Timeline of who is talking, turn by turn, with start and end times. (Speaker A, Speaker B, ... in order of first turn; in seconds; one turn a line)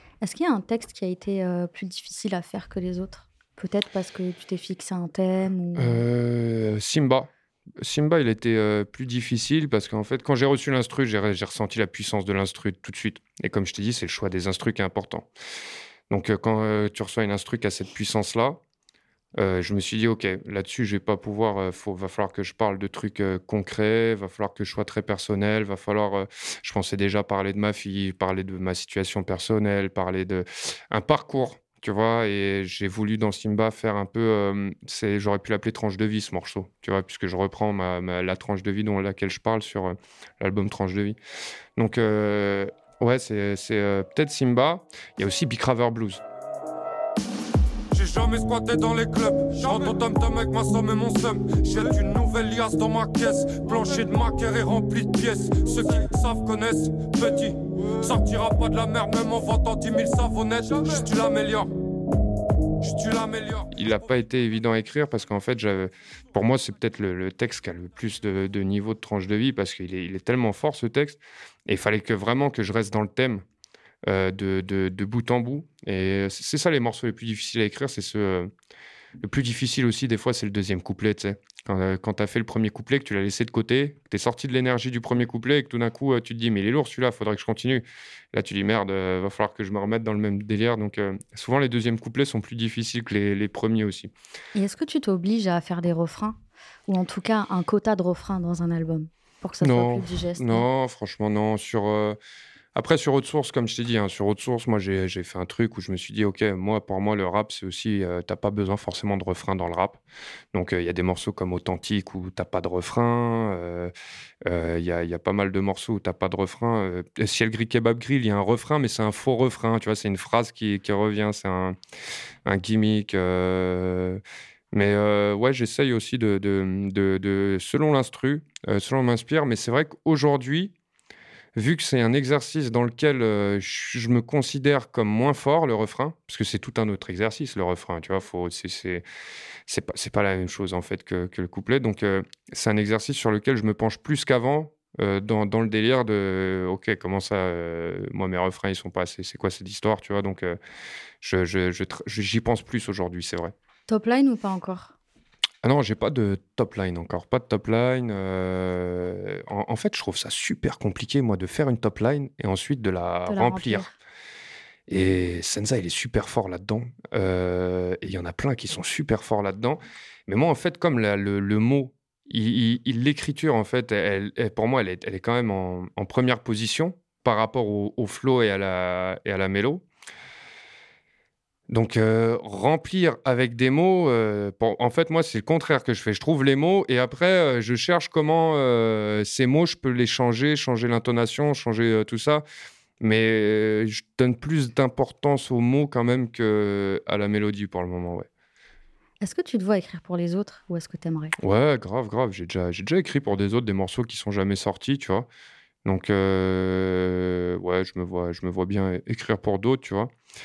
Speaker A: 0.2-6.0
Speaker B: 5.8-15.3
Speaker B: 16.1-18.6
Speaker B: 19.4-41.2
Speaker B: 41.8-46.2
Speaker C: 47.9-61.7
Speaker C: 62.8-63.9
Speaker B: 63.7-73.5
Speaker B: 74.0-78.5
Speaker B: 79.2-94.1
Speaker A: 94.5-100.7
Speaker B: 99.6-102.2
Speaker B: 102.8-110.0
Speaker B: 110.5-113.9
Speaker B: 114.5-121.8
Speaker B: 122.5-124.2
Speaker B: 124.7-130.7
Speaker B: 131.6-139.0
Speaker B: 139.7-150.6
Speaker B: 151.2-153.5
Speaker A: 153.9-154.9
Speaker B: 155.6-163.9
Speaker A: 163.3-163.9
Speaker B: 164.9-179.8
Speaker B: 181.7-192.4
Speaker B: 193.0-198.3
Speaker A: 199.2-201.3
Speaker B: 201.4-205.3
Speaker B: 205.8-210.1